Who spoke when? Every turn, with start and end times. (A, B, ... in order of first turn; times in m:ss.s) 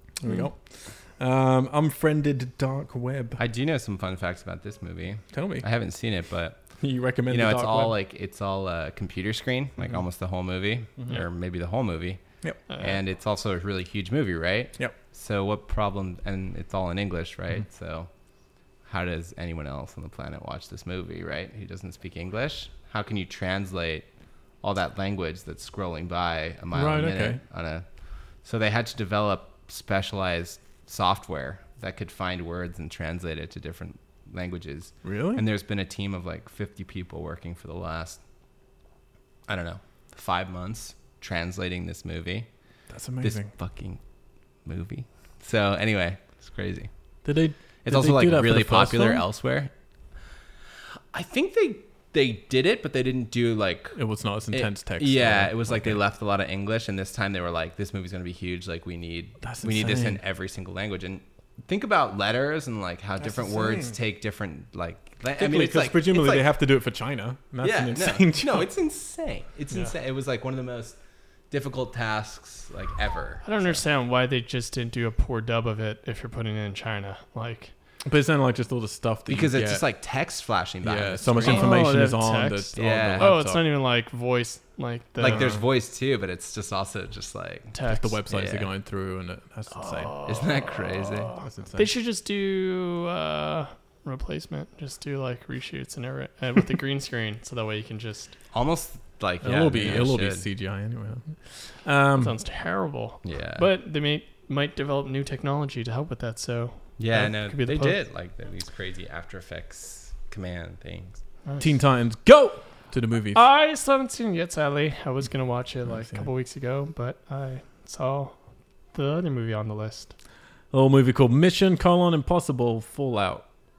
0:00.2-0:03.4 A
0:03.4-0:18.1 B
0:05.3-0:05.7 A
0:06.8-0:07.9 A
0:12.7-0:13.0 C
0:18.8-0:24.1 B
0:24.6-0:38.2 B
0:26.7-0:27.4 A
0:35.0-0:35.4 A
0:39.5-0:42.5 B
0:42.9-0:43.5 A
0:43.2-0:44.0 B
0:44.6-0:46.9 B
0:47.2-0:49.2 A
0:47.8-0:49.7 B
0:51.1-1:06.5 B
0:54.0-0:56.0 A
0:59.4-1:00.2 A
1:03.2-1:04.0 A
1:05.4-1:08.7 A
1:07.6-1:11.0 B
1:11.5-1:13.8 B
1:13.4-1:17.7 C
1:18.1-1:19.8 A
1:19.3-1:21.8 B
1:20.8-1:23.6 A
1:21.4-1:25.5 C
1:22.8-1:23.3 B
1:25.2-1:28.7 B
1:25.3-1:25.6 A
1:27.7-1:28.2 C
1:27.9-1:30.2 A
1:29.7-1:38.4 C
1:30.2-1:31.4 B
1:31.4-1:31.9 A
1:38.5-1:40.5 B
1:39.4-1:42.4 A
1:42.2-1:48.0 C
1:43.2-1:43.7 B
1:47.0-1:51.2 B
1:51.4-1:51.7 C
1:51.6-1:53.4 A
1:53.3-2:00.1 C
1:55.8-1:56.3 A
2:00.7-2:03.5 A